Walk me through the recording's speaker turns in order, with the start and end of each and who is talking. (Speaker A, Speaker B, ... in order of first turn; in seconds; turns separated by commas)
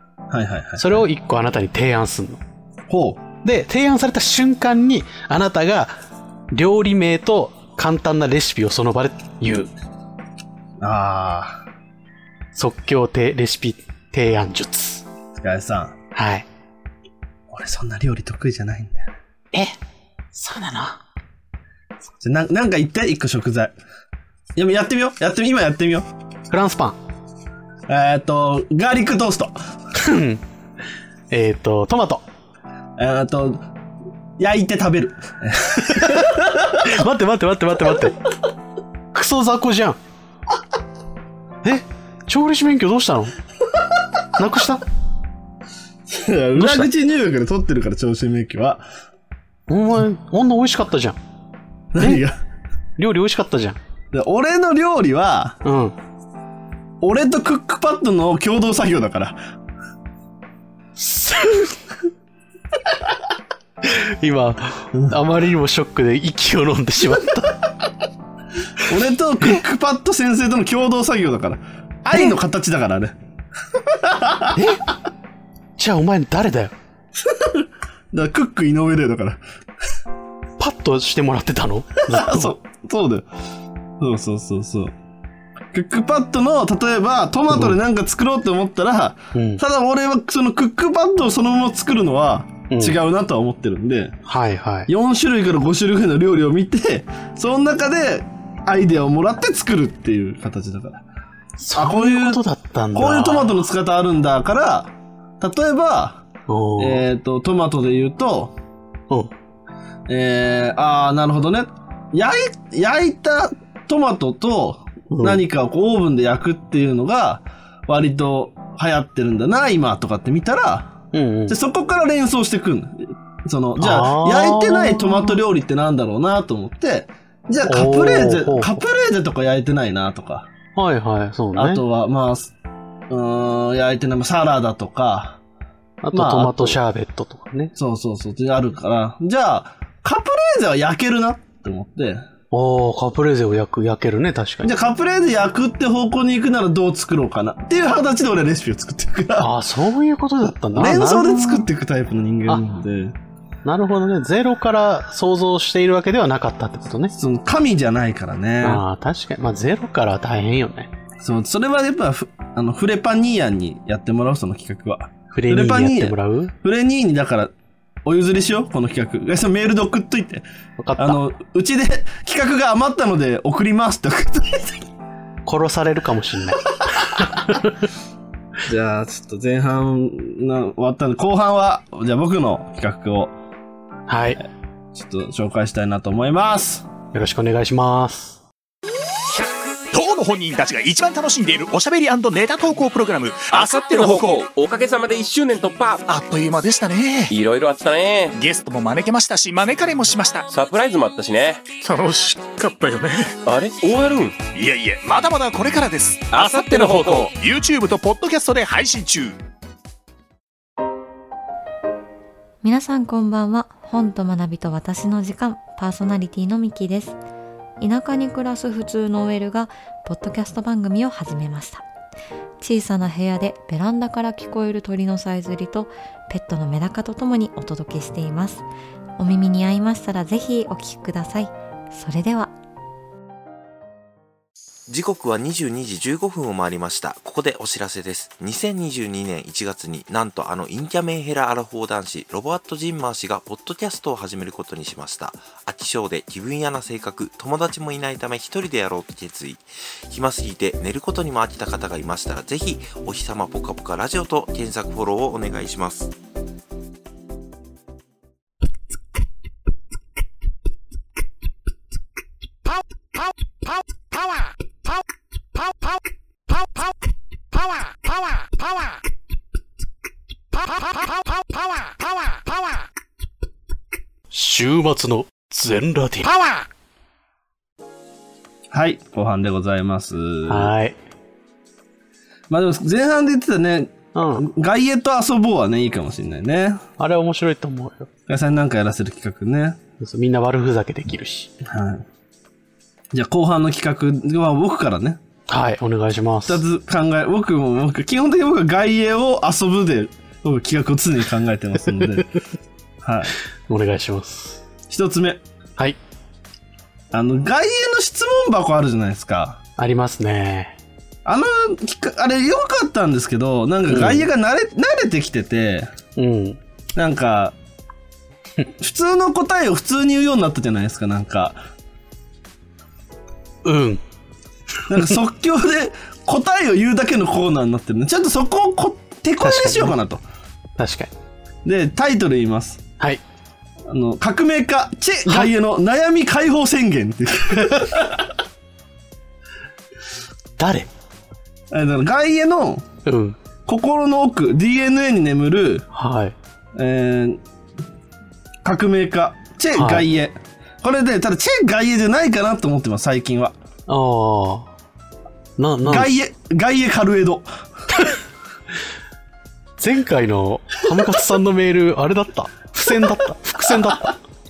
Speaker A: 0.3-1.1, Speaker B: 0.8-2.4, Speaker A: 2.9-3.2, Speaker B: 3.4-5.9, Speaker B: 6.5-9.7, Speaker A: 10.8-11.6, Speaker B: 12.5-15.1, Speaker A: 15.3-16.0, Speaker B: 16.1-16.5, Speaker A: 17.5-19.1, Speaker B: 20.3-21.0, Speaker A: 22.2-23.8, Speaker A: 24.6-26.1, Speaker B: 26.5-27.0, Speaker A: 27.9-29.6, Speaker B: 29.9-30.4, Speaker B: 31.3-32.2, Speaker A: 33.0-33.6, Speaker A: 34.4-36.8, Speaker B: 35.8-36.3, Speaker B: 36.8-38.2, Speaker B: 39.1-40.0, Speaker B: 41.6-43.3, Speaker B: 44.4-44.8, Speaker A: 46.1-48.8, Speaker B: 46.6-46.9, Speaker B: 49.7-51.2, Speaker A: 51.9-52.4, Speaker B: 53.0-53.8, Speaker A: 54.1-55.6, Speaker B: 55.6-56.0, Speaker A: 57.0-59.4, Speaker B: 61.0-61.8, Speaker B: 63.8-67.7, Speaker A: 68.8-73.2, Speaker A: 73.9-74.6, Speaker B: 74.5-74.9, Speaker B: 75.8-76.7, Speaker A: 77.3-79.4, Speaker B: 80.6-82.6, Speaker A: 82.1-83.3, Speaker A: 84.0-84.9, Speaker A: 85.7-94.2, Speaker B: 87.5-87.8, Speaker B: 89.3-89.6, Speaker B: 92.7-93.0, Speaker B: 94.3-94.9, Speaker A: 94.9-101.0, Speaker B: 101.6-103.5, Speaker A: 101.8-102.4, Speaker A: 103.0-106.2, Speaker B: 106.5-107.1, Speaker A: 106.8-108.5, Speaker A: 110.1-130.5, Speaker B: 115.1-115.4, Speaker B: 121.1-121.6, Speaker B: 123.8-125.4, Speaker B: 127.7-128.8, Speaker B: 130.8-131.8, Speaker A: 131.6-132.5, Speaker A: 133.1-135.4, Speaker B: 136.0-137.7, Speaker A: 136.1-136.8, Speaker A: 137.8-142.2, Speaker B: 142.5-144.8, Speaker A: 144.6-149.5, Speaker B: 149.4-151.7, Speaker A: 150.8-153.2, Speaker B: 153.7-157.1, Speaker A: 157.2-158.8, Speaker B: 158.6-160.9, Speaker A: 161.2-167.5, Speaker B: 165.3-166.5, Speaker A: 168.0-170.4, Speaker B: 170.8-171.2, Speaker A: 171.0-174.8, Speaker B: 175.4-177.8, Speaker A: 178.6-183.3, Speaker B: 184.1-184.4, Speaker A: 184.9-186.9, Speaker B: 187.1-188.4, Speaker C: 189.4-194.5, Speaker D: 193.5-196.1, Speaker C: 196.1-197.3, Speaker D: 197.3-198.3, Speaker C: 198.3-200.5, Speaker D: 200.5-201.8, Speaker C: 201.8-203.4, Speaker D: 203.5-204.5, Speaker C: 204.5-209.4, Speaker D: 206.3-207.3, Speaker E: 212.6-217.2, Speaker E: 217.8-221.8, Speaker E: 222.6-228.7, Speaker E: 229.2-232.5, Speaker F: 234.9-256.1, Speaker B: 274.3-276.4, Speaker A: 278.7-280.7, Speaker B: 280.5-281.0, Speaker A: 282.5-286.8, Speaker B: 284.1-284.5, Speaker B: 287.0-288.1, Speaker A: 288.3-289.8, Speaker B: 290.0-291.5, Speaker A: 291.6-292.1, Speaker A: 293.1-295.2, Speaker B: 295.5-296.6, Speaker A: 296.5-302.3, Speaker A: 303.0-303.3, Speaker B: 303.7-304.6, Speaker A: 304.9-305.4, Speaker A: 307.1-309.6, Speaker B: 309.8-310.8, Speaker A: 311.2-315.9, Speaker B: 313.9-314.3, Speaker B: 316.1-316.6, Speaker A: 317.0-317.6, Speaker A: 318.8-321.6, Speaker B: 323.6-324.0, Speaker A: 324.9-330.2, Speaker B: 329.4-330.0, Speaker B: 330.8-331.1, Speaker A: 331.6-332.8, Speaker A: 333.9-338.3, Speaker B: 340.6-340.9, Speaker A: 341.7-342.9, Speaker B: 343.1-343.4, Speaker A: 343.6-345.9, Speaker B: 345.9-346.4, Speaker A: 346.8-347.4, Speaker A: 348.6-353.6, Speaker B: 349.8-350.1, Speaker B: 353.9-354.7, Speaker B: 355.6-356.1, Speaker A: 355.8-357.5, Speaker B: 359.8-364.2